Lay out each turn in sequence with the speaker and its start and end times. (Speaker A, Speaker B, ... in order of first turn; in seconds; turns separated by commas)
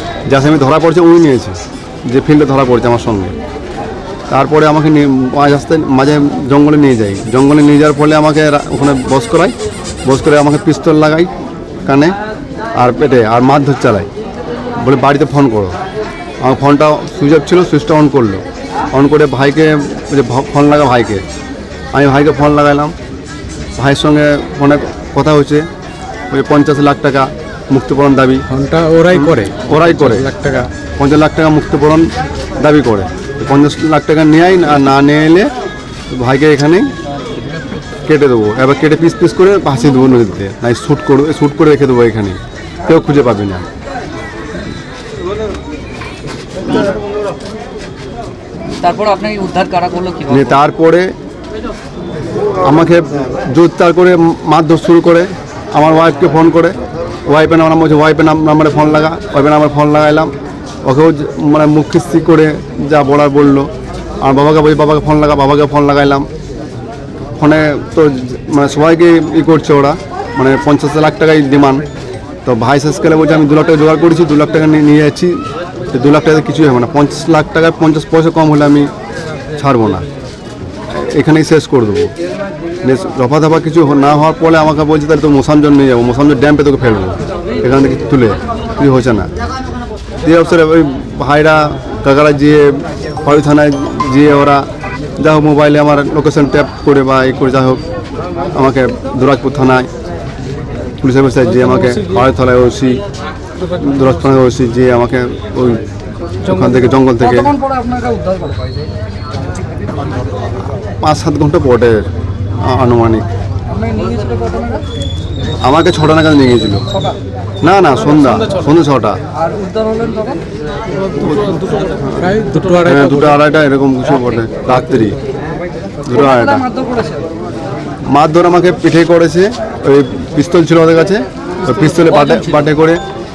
Speaker A: 0.2-3.4, Speaker A: 4.3-11.3, Speaker A: 11.8-12.2, Speaker A: 12.7-14.1, Speaker A: 14.8-15.7, Speaker A: 16.4-21.2, Speaker A: 21.9-22.9, Speaker A: 23.8-25.7, Speaker A: 26.3-28.4, Speaker B: 28.5-30.7, Speaker A: 29.1-35.5, Speaker A: 36.1-36.9, Speaker A: 38.0-43.6, Speaker C: 48.8-50.5, Speaker A: 50.3-51.1, Speaker A: 52.6-56.8, Speaker A: 57.3-60.3, Speaker A: 60.8-63.7, Speaker A: 64.2-66.3, Speaker A: 67.4-71.8, Speaker A: 72.5-78.9, Speaker A: 79.5-80.0, Speaker A: 80.9-82.1, Speaker A: 82.8-89.3, Speaker A: 90.2-94.7, Speaker A: 95.2-97.8, Speaker A: 98.5-99.9, Speaker A: 101.0-103.0, Speaker A: 103.7-105.8, Speaker A: 106.4-107.5, Speaker C: 107.3-108.9, Speaker A: 111.0-112.1, Speaker A: 112.6-113.2, Speaker C: 113.7-114.8, Speaker A: 115.6-116.9, Speaker A: 117.6-119.2, Speaker C: 119.4-120.4, Speaker A: 121.2-125.2, Speaker B: 122.3-123.3, Speaker A: 126.0-126.7, Speaker C: 126.3-127.2, Speaker A: 128.1-133.0